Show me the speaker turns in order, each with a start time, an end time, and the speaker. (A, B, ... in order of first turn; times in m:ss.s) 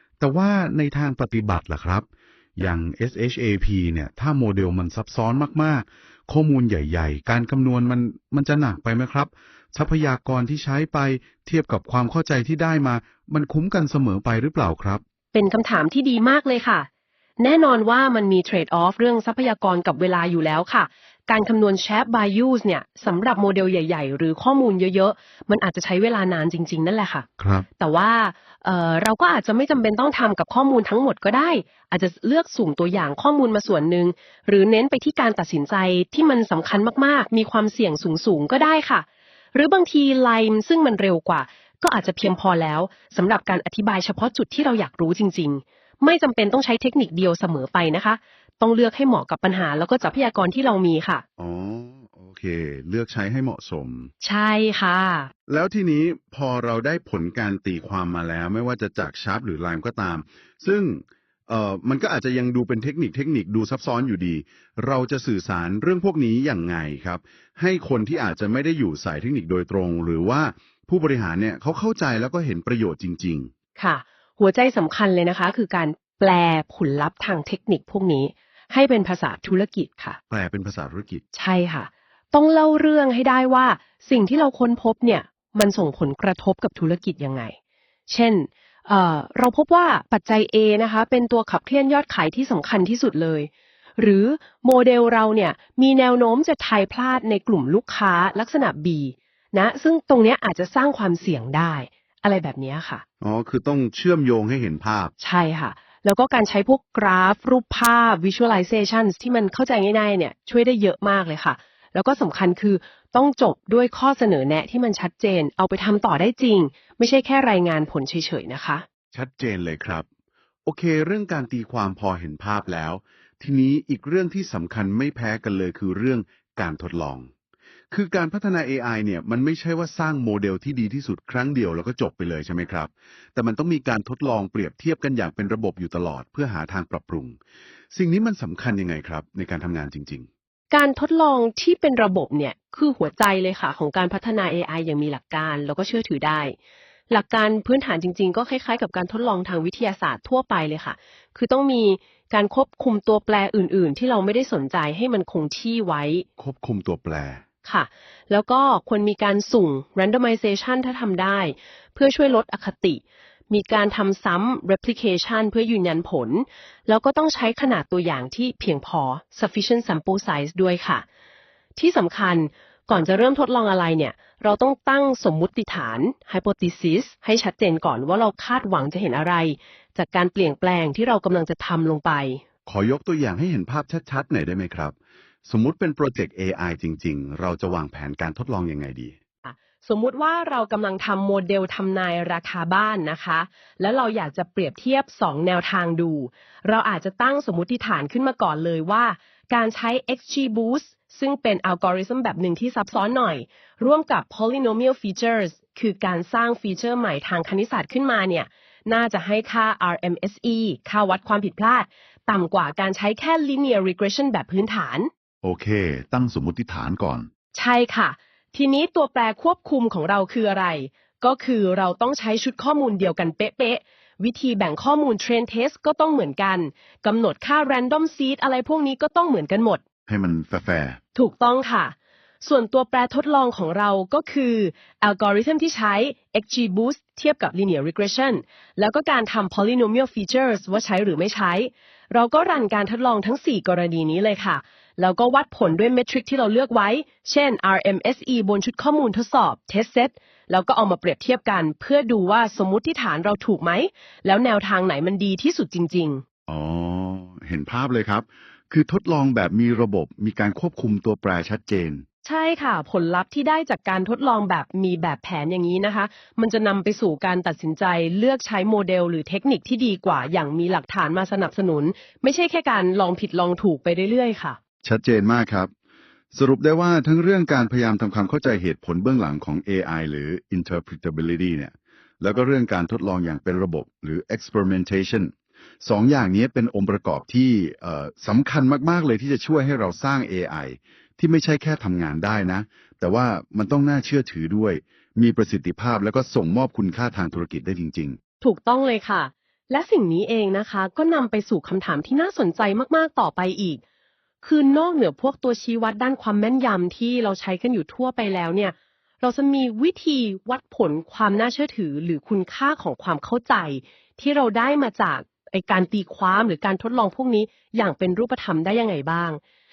0:00.2-0:15.0 A
0:15.3-0:16.9 B
0:17.4-0:27.3 B
0:27.4-0:27.7 A
0:27.8-0:51.2 B
0:51.4-0:54.1 A
0:54.2-0:55.3 B
0:55.5-1:13.5 A
1:13.8-1:20.2 B
1:20.3-1:21.2 A
1:21.3-1:27.6 B
1:28.1-1:43.0 B
1:43.2-1:45.1 A
1:45.2-1:58.8 B
1:59.1-2:00.1 A
2:00.6-2:07.3 A
2:07.9-2:17.4 A
2:17.9-2:20.3 A
2:20.7-2:26.6 B
2:27.1-2:36.3 B
2:36.4-2:37.4 A
2:37.6-2:51.1 B
2:51.8-3:02.4 B
3:02.6-3:04.9 A
3:05.4-3:09.2 A
3:09.4-3:35.1 B
3:35.4-3:37.3 A
3:37.5-3:49.8 B
3:50.1-3:51.0 A
3:51.1-4:16.2 B
4:16.5-4:22.0 A
4:22.2-4:34.6 B
4:34.8-4:35.7 A
4:36.3-4:58.2 A
4:58.4-5:03.8 B
5:04.4-5:19.4 B